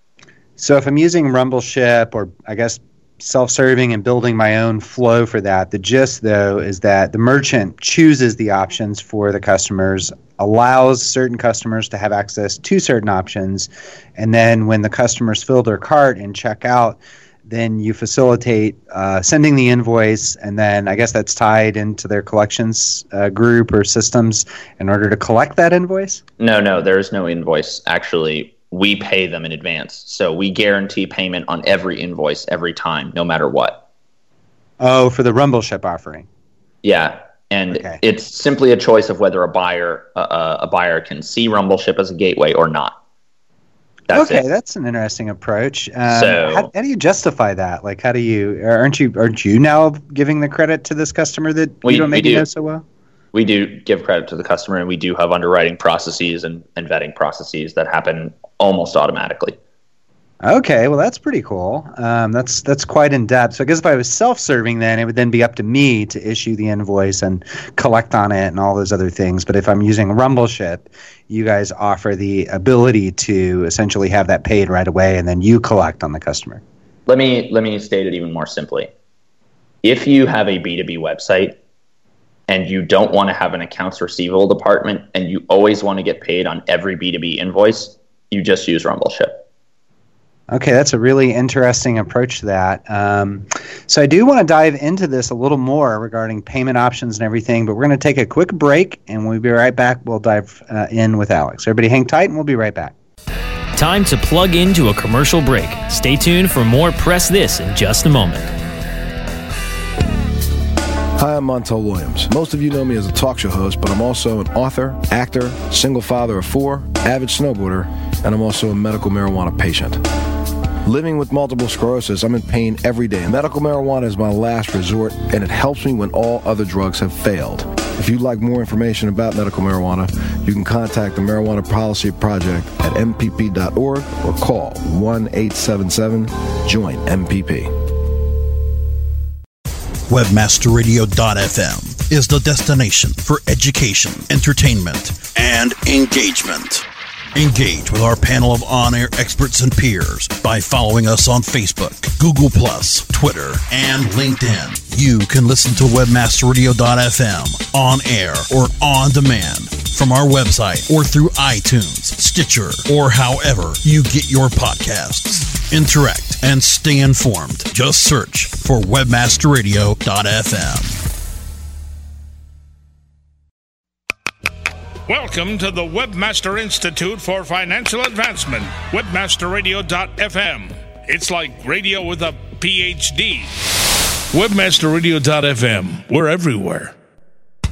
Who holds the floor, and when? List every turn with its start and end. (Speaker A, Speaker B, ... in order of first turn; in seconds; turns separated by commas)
Speaker A: 0.6-26.2, Speaker B: 26.4-33.8, Speaker A: 34.8-36.3, Speaker B: 36.8-43.0, Speaker A: 37.7-38.0, Speaker B: 44.1-44.4, Speaker A: 44.1-52.9, Speaker B: 46.1-46.7, Speaker B: 51.8-52.5, Speaker B: 53.3-59.6, Speaker A: 60.4-76.6, Speaker B: 77.1-78.9, Speaker B: 79.8-81.6, Speaker B: 82.5-89.5, Speaker A: 90.5-102.9, Speaker C: 103.8-108.5, Speaker D: 111.2-120.0, Speaker D: 120.8-137.7, Speaker E: 140.1-146.8, Speaker E: 147.3-171.0, Speaker F: 175.1-183.5, Speaker F: 184.3-186.9